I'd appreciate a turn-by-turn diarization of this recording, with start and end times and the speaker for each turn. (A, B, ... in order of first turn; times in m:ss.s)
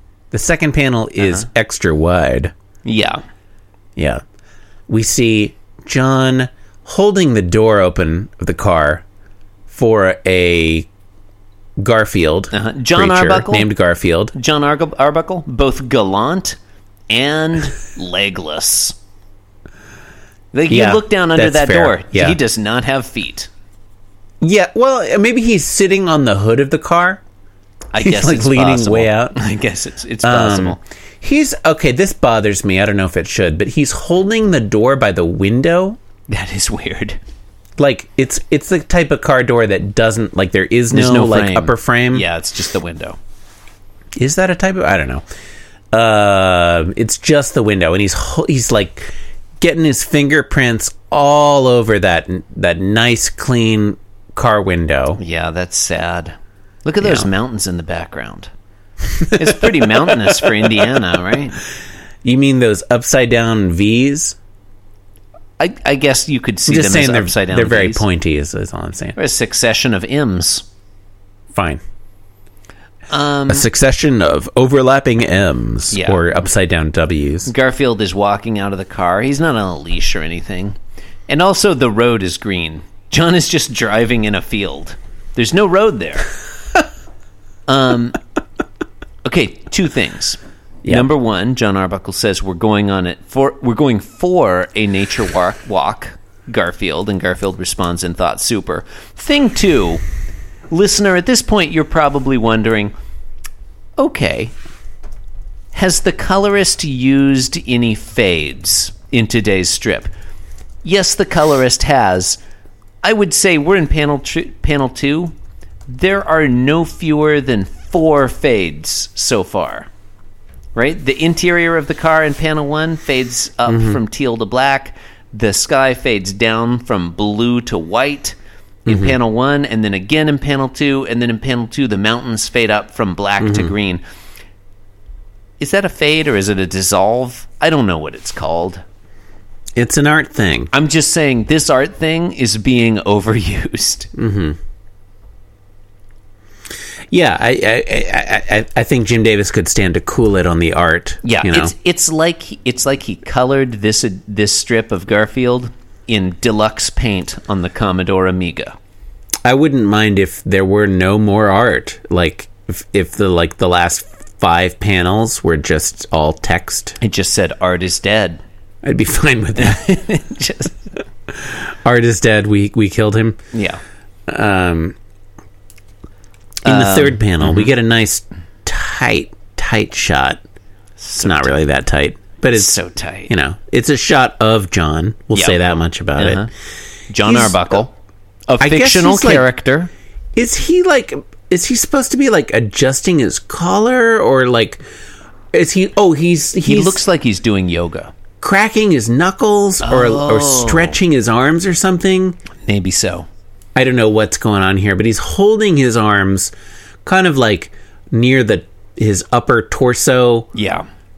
0:00.3-0:02.5 A
0:01.2-0:01.4 B
0:02.8-0:03.2 B
0:04.0-0:04.2 A
0:04.9-0:09.0 A
0:09.7-0:10.9 A
0:11.8-0:14.3 A
0:12.5-0:13.7 B
0:14.3-0:16.6 B
0:17.1-0:19.0 B
0:20.5-0:23.5 B
0:20.7-0:22.4 A
0:24.4-0:27.2 A
0:27.9-0:30.8 B
0:28.0-0:29.4 A
0:30.2-0:36.0 A
0:36.3-0:37.2 B
0:37.8-0:42.2 A
0:40.9-0:43.2 B
0:44.2-0:45.2 A
0:45.9-0:55.2 A
0:55.2-0:58.5 B
0:57.0-0:57.3 A
0:59.3-0:59.6 A
0:59.3-1:01.6 B
1:02.2-1:04.4 A
1:05.6-1:08.0 B
1:06.7-1:09.2 A
1:09.2-1:10.6 B
1:11.5-1:11.8 A
1:13.1-1:13.6 B
1:13.5-1:17.5 A
1:15.9-1:16.2 B
1:17.5-1:20.8 B
1:21.3-1:26.3 B
1:27.7-1:28.2 B
1:29.2-1:40.0 B
1:40.7-1:42.9 B
1:44.0-1:44.5 B
1:45.7-1:50.1 B
1:50.8-1:52.4 B
1:53.0-1:55.3 B
1:55.9-1:59.9 B
2:00.7-2:14.0 B
2:03.7-2:04.0 A
2:08.8-2:09.1 A
2:13.4-2:13.7 A
2:15.6-2:18.8 B
2:19.8-2:20.7 A
2:20.7-2:24.1 B
2:24.2-2:24.6 A
2:27.1-2:31.7 A
2:31.2-2:38.8 B
2:39.4-2:47.0 A
2:47.0-2:48.4 B
2:48.8-2:50.0 A
2:49.6-2:50.8 B
2:51.4-2:53.4 A
2:53.5-2:53.8 B
2:54.3-2:55.0 A
2:56.6-2:57.7 B
2:56.6-3:00.4 A
3:01.0-3:01.5 B
3:01.2-3:02.8 A
3:02.5-3:03.3 B
3:03.3-3:06.5 A
3:06.2-3:06.5 B
3:07.1-3:07.9 B
3:07.2-3:07.8 A
3:08.5-3:09.9 B
3:08.6-3:09.4 A
3:10.4-3:14.8 A
3:15.5-3:17.0 A
3:16.6-3:18.1 B
3:18.4-3:22.4 A
3:19.8-3:21.0 B
3:22.6-3:23.3 B
3:23.8-3:26.5 A
3:27.0-3:30.5 A
3:30.5-3:30.9 B